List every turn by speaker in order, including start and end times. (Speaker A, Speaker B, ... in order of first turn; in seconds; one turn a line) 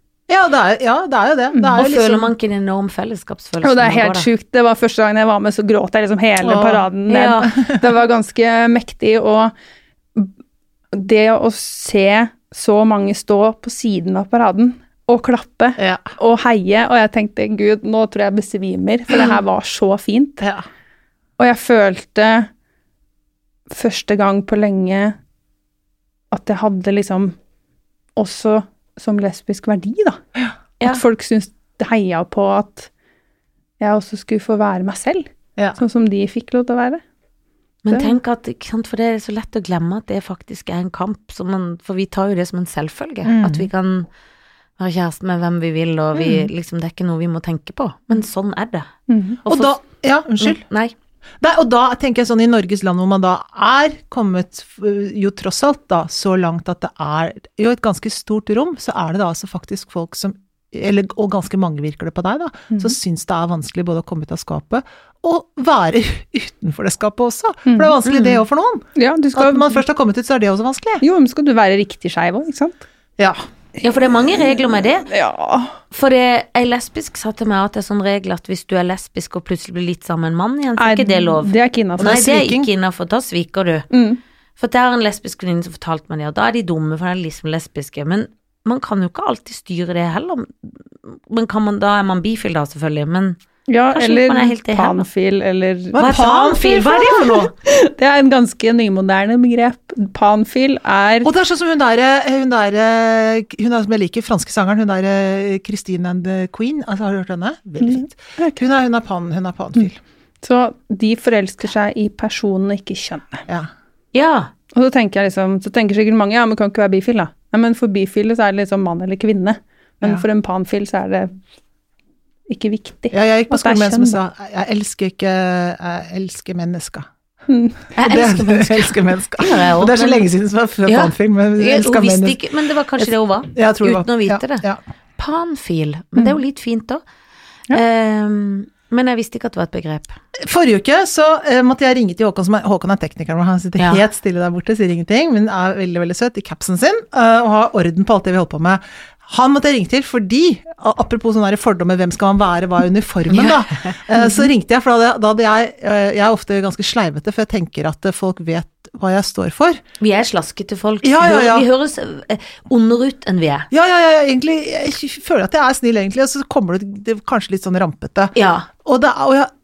Speaker A: 0.3-2.3
Speaker B: 1.5-1.8
Speaker C: 1.7-4.3
Speaker B: 3.6-9.5
Speaker A: 6.4-6.8
Speaker C: 7.1-7.5
Speaker B: 10.9-20.4
Speaker A: 15.8-16.1
Speaker A: 20.4-20.6
Speaker B: 21.4-22.5
Speaker B: 23.7-25.2
Speaker B: 26.3-27.4
Speaker B: 28.2-30.2
Speaker B: 30.8-32.9
Speaker B: 33.8-37.0
Speaker C: 37.8-44.1
Speaker B: 37.9-38.2
Speaker A: 43.2-43.7
Speaker C: 44.8-48.9
Speaker B: 49.1-49.4
Speaker C: 49.5-49.7
Speaker A: 49.5-50.6
Speaker C: 50.4-50.9
Speaker A: 51.4-71.0
Speaker B: 62.7-63.0
Speaker B: 67.7-68.0
Speaker C: 68.0-68.4
Speaker B: 69.0-69.8
Speaker B: 71.0-72.9
Speaker C: 73.8-75.1
Speaker B: 75.1-75.8
Speaker C: 75.9-83.9
Speaker B: 80.8-82.2
Speaker A: 82.0-82.7
Speaker B: 83.9-84.2
Speaker C: 84.6-93.4
Speaker B: 93.7-96.1
Speaker C: 93.9-95.1
Speaker A: 95.9-97.5
Speaker C: 96.0-97.5
Speaker B: 96.6-101.3
Speaker A: 101.2-110.0
Speaker B: 107.8-108.6
Speaker B: 110.4-113.5
Speaker C: 114.1-114.5
Speaker B: 114.7-121.4
Speaker B: 122.5-124.2
Speaker A: 123.1-127.1
Speaker B: 127.5-127.9
Speaker C: 128.0-130.3
Speaker A: 128.0-132.4
Speaker C: 130.9-134.7
Speaker A: 133.0-134.8
Speaker C: 135.2-137.0
Speaker C: 137.7-140.2
Speaker A: 140.4-159.8
Speaker C: 153.3-153.9
Speaker C: 160.0-163.7
Speaker A: 161.0-161.7
Speaker A: 163.7-169.5
Speaker C: 168.3-168.7